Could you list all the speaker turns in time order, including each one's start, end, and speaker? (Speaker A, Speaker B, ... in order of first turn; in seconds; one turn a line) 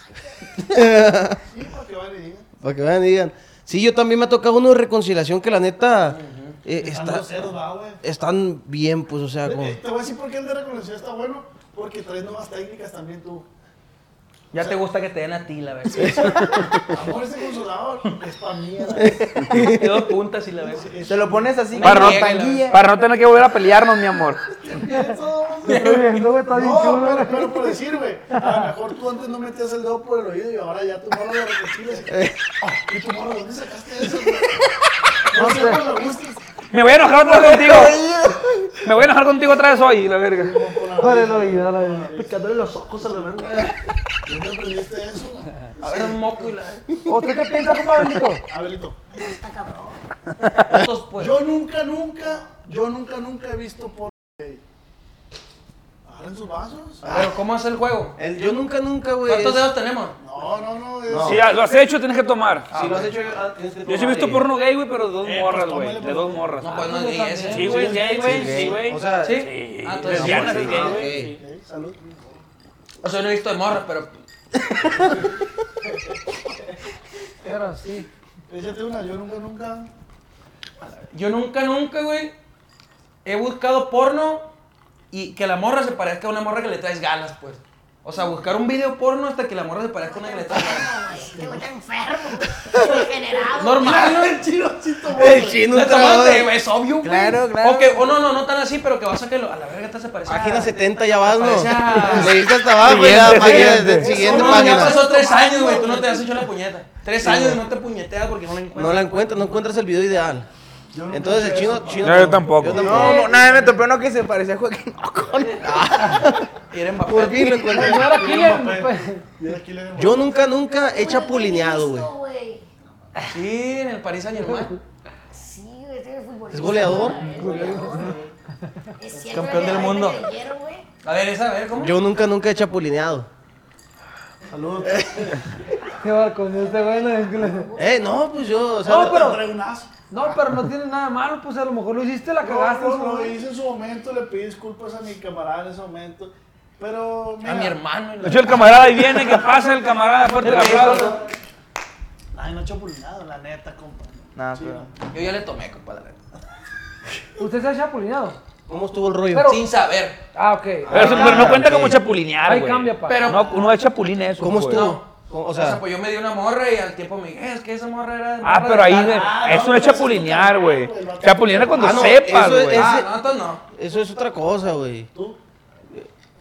Speaker A: 0.6-1.4
Speaker B: 1.4-2.5
Speaker A: 2.6-7.4
Speaker C: 6.1-6.6
Speaker B: 6.8-8.0
Speaker A: 8.0-9.8
Speaker B: 9.4-13.5
Speaker C: 14.5-16.7
Speaker A: 16.0-16.9
Speaker B: 16.9-19.6
Speaker A: 19.0-20.1
Speaker C: 19.5-21.0
Speaker B: 20.6-21.7
Speaker D: 21.1-22.8
Speaker C: 21.8-22.8
Speaker E: 21.8-24.4
Speaker B: 24.6-34.6
Speaker F: 25.7-27.8
Speaker F: 28.3-28.6
Speaker B: 35.3-36.4
Speaker F: 35.3-36.0
Speaker E: 36.7-38.0
Speaker A: 37.3-38.4
Speaker E: 38.8-40.6
Speaker B: 40.4-42.4
Speaker F: 40.9-43.7
Speaker B: 44.3-46.4
Speaker C: 45.8-46.9
Speaker F: 47.1-48.4
Speaker B: 48.5-49.0
Speaker G: 49.2-50.0
Speaker C: 50.6-51.4
Speaker B: 51.2-54.6
Speaker B: 56.1-57.1
Speaker C: 57.0-58.2
Speaker A: 58.2-59.7
Speaker C: 59.2-60.2
Speaker B: 60.2-61.5
Speaker A: 61.1-61.5
Speaker E: 61.2-62.7
Speaker C: 62.7-63.2
Speaker A: 62.7-64.5
Speaker E: 63.9-66.9
Speaker B: 65.2-66.5
Speaker C: 66.6-68.2
Speaker F: 66.6-68.7
Speaker E: 67.5-71.4
Speaker B: 68.1-68.6
Speaker A: 68.2-69.5
Speaker C: 69.2-71.0
Speaker A: 70.0-71.3
Speaker B: 70.6-72.0
Speaker C: 73.0-74.1
Speaker F: 77.4-78.1
Speaker B: 78.5-79.9
Speaker C: 81.1-82.3
Speaker C: 83.2-84.5
Speaker C: 85.1-90.9
Speaker G: 90.0-94.2
Speaker C: 93.6-94.4
Speaker B: 93.8-95.7
Speaker A: 95.1-96.5
Speaker C: 95.7-102.4
Speaker D: 97.0-98.0
Speaker A: 100.3-105.1
Speaker E: 102.8-104.2
Speaker B: 103.2-106.2
Speaker C: 103.5-109.1
Speaker A: 107.2-107.6
Speaker A: 108.7-110.5
Speaker B: 110.9-112.8
Speaker A: 111.1-113.2
Speaker E: 112.0-113.0
Speaker D: 112.7-116.3
Speaker F: 112.9-113.6
Speaker A: 115.6-116.5
Speaker C: 116.7-117.8
Speaker A: 117.1-118.2
Speaker F: 117.7-119.2
Speaker B: 117.7-120.3
Speaker A: 120.0-122.1
Speaker G: 120.9-122.7
Speaker C: 123.3-124.8
Speaker F: 124.5-124.8
Speaker G: 125.3-128.1
Speaker A: 126.5-127.3
Speaker F: 127.2-128.1
Speaker B: 127.4-128.3
Speaker G: 129.0-130.8
Speaker C: 129.3-130.2
Speaker E: 129.6-130.1
Speaker C: 131.0-132.0
Speaker A: 131.8-133.3
Speaker B: 134.5-135.4
Speaker F: 136.0-137.7
Speaker G: 136.7-138.2
Speaker A: 137.8-139.3
Speaker F: 138.8-139.5
Speaker B: 138.8-139.9
Speaker F: 140.1-143.4
Speaker B: 142.4-147.8
Speaker C: 147.4-149.0
Speaker E: 148.2-151.2
Speaker C: 150.4-151.2
Speaker B: 150.5-151.2
Speaker B: 152.3-154.9
Speaker D: 154.3-154.9
Speaker C: 155.1-156.2
Speaker F: 157.4-158.4
Speaker A: 158.7-159.6
Speaker F: 159.3-159.6
Speaker C: 159.4-160.2
Speaker F: 160.3-161.7
Speaker A: 160.9-162.0
Speaker E: 160.9-164.9
Speaker F: 162.4-163.5
Speaker C: 163.1-163.6
Speaker A: 164.4-165.8
Speaker C: 164.7-169.5
Speaker E: 168.4-172.9
Speaker B: 169.1-172.3
Speaker A: 171.7-173.1
Speaker C: 172.6-173.6
Speaker A: 173.7-175.1